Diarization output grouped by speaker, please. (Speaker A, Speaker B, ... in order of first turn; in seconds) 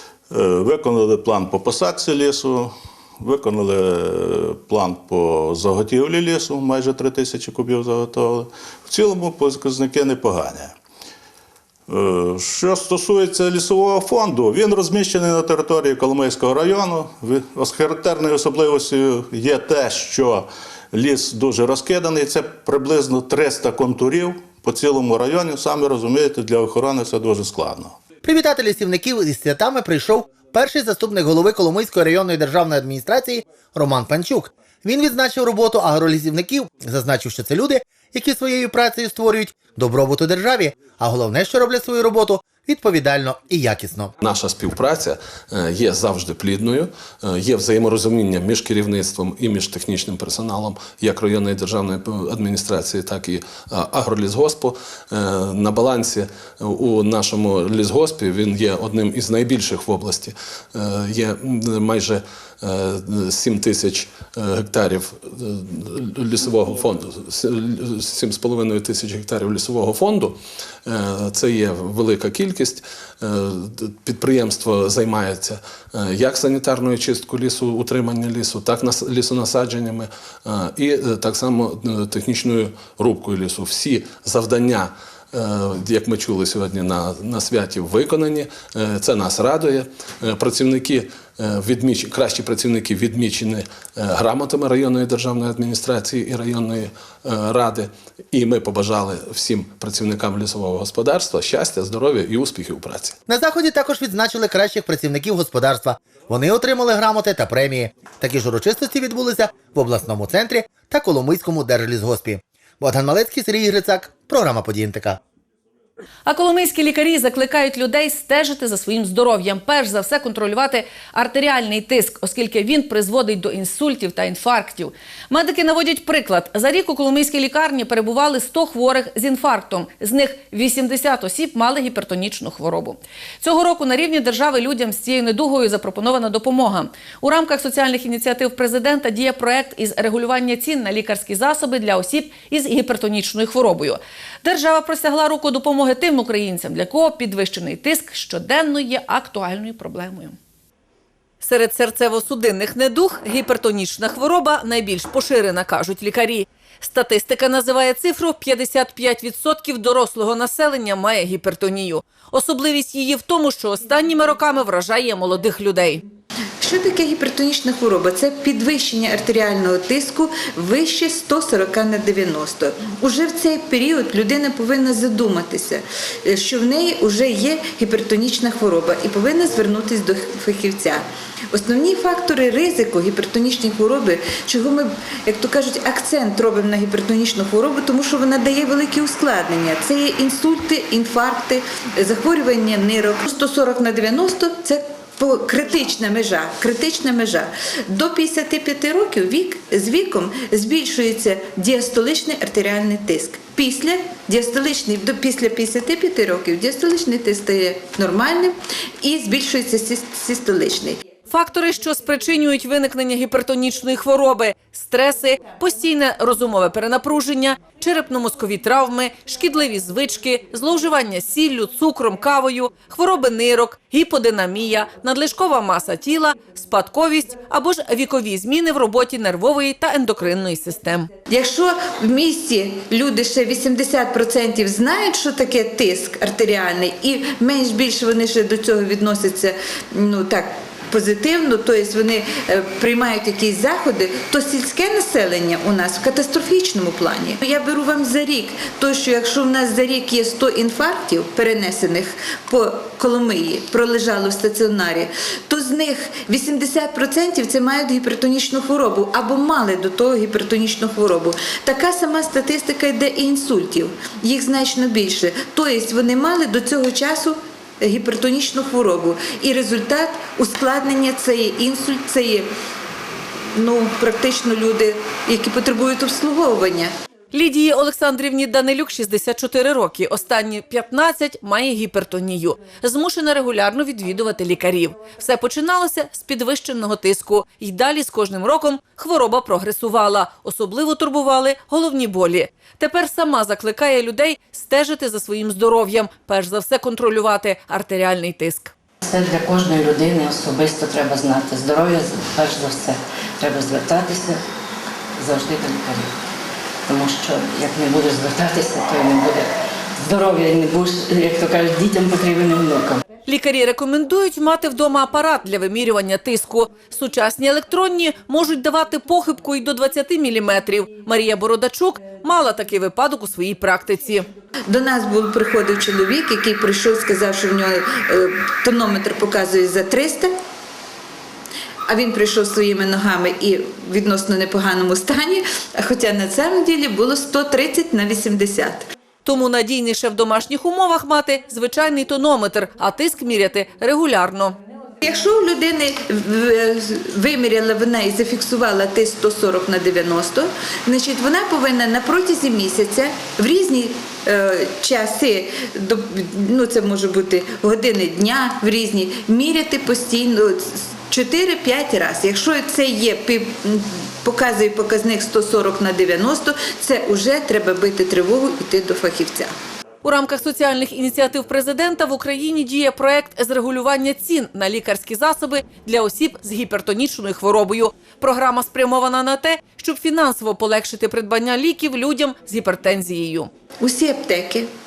Speaker A: 0.3-10.8, 11.9-28.0
Speaker B: 28.2-44.1, 103.3-115.2
Speaker C: 44.2-103.2
Speaker D: 116.2-150.4, 151.4-166.0, 211.3-231.1, 277.3-298.7, 313.2-324.3, 339.2-344.6, 370.0-383.5
Speaker E: 166.6-211.0, 231.3-272.5, 273.5-276.9, 324.7-330.3, 331.9-338.9, 345.0-369.5, 383.8-384.7
Speaker F: 299.0-304.4, 305.1-306.1, 306.9-313.0